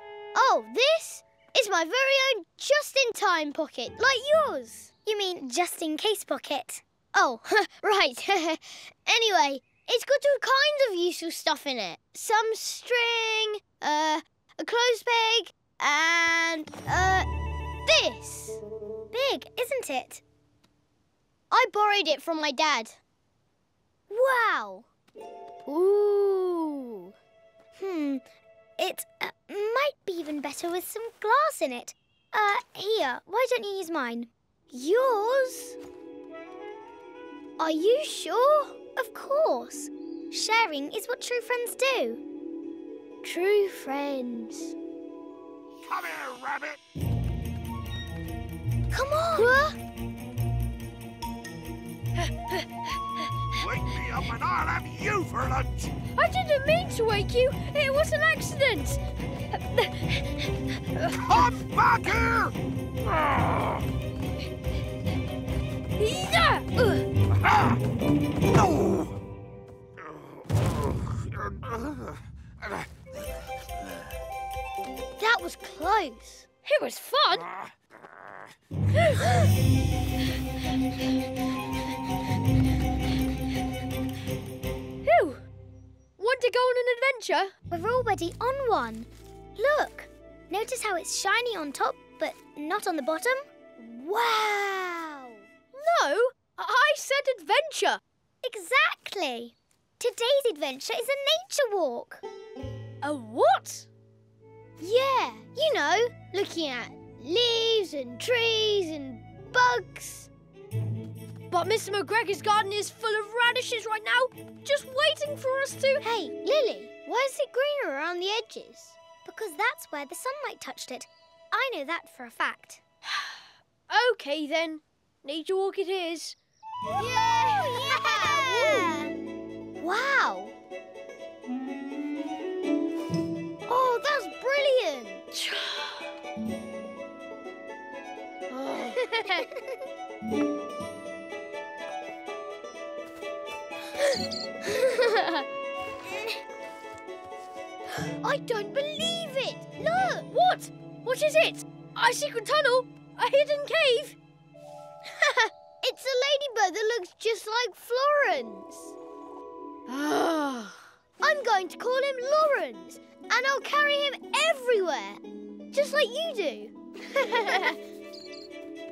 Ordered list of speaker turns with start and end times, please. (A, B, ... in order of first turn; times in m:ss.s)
0:00.3-0:04.9 A
0:05.0-0:06.8 B
0:07.1-0:17.3 A
0:17.9-0:18.6 A
0:19.1-0:20.2 B
0:21.5-0:23.0 A
0:24.1-0:24.9 A
0:25.7-0:27.1 A
0:27.8-0:28.2 B
0:28.8-0:35.8 B
0:34.7-0:35.0 A
0:37.6-0:38.8 A
0:39.0-0:42.2 B
0:43.2-0:44.8 A
0:45.9-0:46.8 C
0:48.9-0:49.6 B
0:49.4-0:49.8 A
0:52.2-0:52.7 D
0:53.6-0:55.9 C
0:56.1-0:59.0 D
0:59.5-1:00.2 D
1:01.3-1:02.6 C
1:06.0-1:07.0 D
1:15.2-1:16.6 A
1:16.6-1:17.5 D
1:18.9-1:19.4 D
1:25.0-1:25.4 D
1:26.2-1:27.5 D
1:27.7-1:33.5 B
1:33.8-1:35.3 A
1:35.7-1:38.0 D
1:38.4-1:42.2 B
1:43.0-1:43.9 D
1:44.8-1:50.3 A
1:51.5-1:56.0 D
1:56.0-1:59.0 A
1:59.2-2:02.8 B
2:03.1-2:06.4 D
2:04.6-2:04.8 A
2:07.0-2:09.2 A
2:08.1-2:08.8 D
2:09.8-2:10.5 A
2:13.7-2:15.3 A
2:15.4-2:16.0 D
2:18.5-2:19.5 A
2:24.6-2:25.3 A
2:28.0-2:30.3 A
2:30.3-2:34.2 D
2:35.2-2:39.0 A
2:39.9-2:40.8 D
2:41.2-2:45.2 A
2:45.7-2:47.8 A